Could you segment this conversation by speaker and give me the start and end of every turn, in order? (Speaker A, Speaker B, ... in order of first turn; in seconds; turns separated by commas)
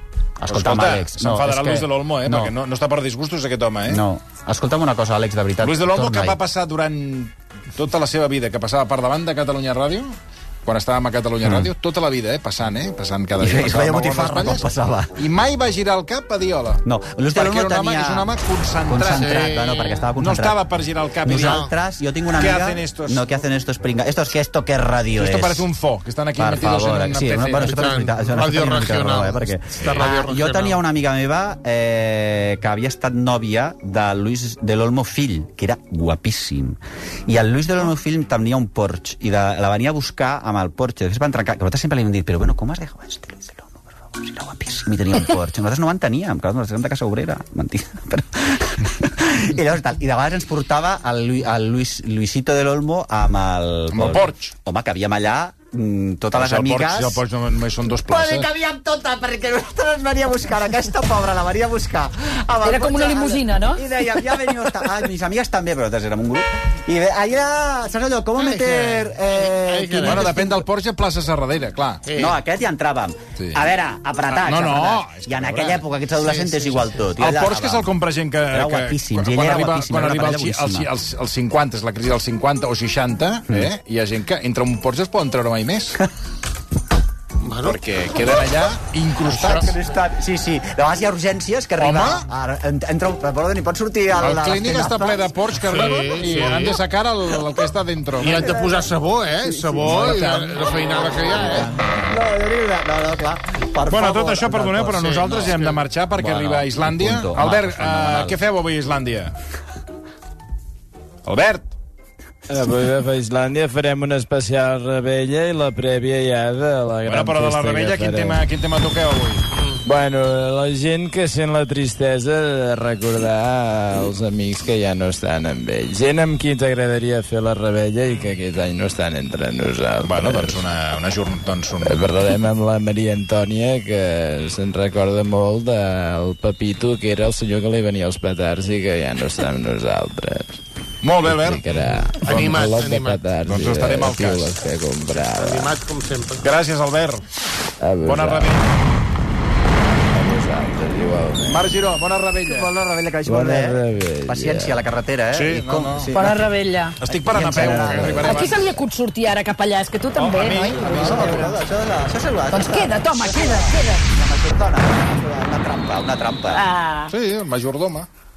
Speaker A: 0.4-2.5, Speaker B: 0.5-4.0, Speaker A: 3.9-6.4, Speaker B: 5.6-10.1, Speaker B: 10.6-16.8, Speaker A: 11.4-11.7, Speaker A: 13.4-15.1, Speaker A: 16.8-18.3, Speaker B: 17.3-19.3, Speaker A: 18.8-20.6, Speaker C: 19.2-20.1, Speaker B: 20.2-21.7, Speaker A: 21.2-25.7, Speaker C: 21.3-21.7, Speaker B: 22.4-23.2, Speaker B: 25.2-27.8, Speaker A: 26.4-57.2, Speaker C: 27.6-30.8, Speaker B: 29.8-30.1, Speaker B: 53.9-54.5, Speaker B: 56.3-58.5, Speaker A: 57.9-70.6, Speaker D: 62.6-63.8, Speaker C: 68.4-70.5, Speaker B: 70.0-72.0, Speaker C: 72.0-72.4, Speaker A: 72.1-77.9, Speaker B: 74.3-75.8, Speaker C: 76.2-76.9, Speaker B: 77.2-86.0, Speaker A: 78.5-80.9, Speaker C: 87.4-87.8, Speaker B: 87.6-89.7, Speaker C: 89.2-89.7, Speaker A: 89.4-95.3, Speaker B: 91.8-92.3, Speaker B: 94.2-98.6, Speaker C: 95.7-96.8, Speaker C: 98.2-101.8, Speaker A: 98.3-98.9, Speaker A: 99.4-108.4, Speaker B: 99.8-100.8, Speaker B: 103.9-109.3, Speaker C: 105.5-105.8, Speaker B: 111.2-111.7, Speaker E: 112.5-118.4, Speaker B: 117.0-119.4, Speaker E: 119.8-130.6, Speaker B: 130.0-132.2, Speaker E: 131.8-140.6, Speaker B: 141.0-142.7, Speaker E: 141.2-145.8, Speaker C: 142.2-143.2, Speaker B: 143.4-144.6, Speaker C: 145.1-146.5, Speaker B: 146.4-147.2, Speaker E: 147.8-148.6, Speaker B: 148.0-148.8, Speaker E: 150.1-151.7, Speaker B: 151.5-152.7, Speaker A: 152.5-156.5, Speaker E: 153.2-154.8, Speaker B: 155.3-156.1, Speaker D: 156.1-157.0, Speaker A: 157.0-158.6, Speaker B: 157.0-158.8, Speaker D: 158.0-161.5, Speaker B: 160.2-161.5, Speaker A: 160.8-166.6, Speaker D: 162.5-164.1, Speaker D: 166.5-167.1, Speaker B: 167.1-168.1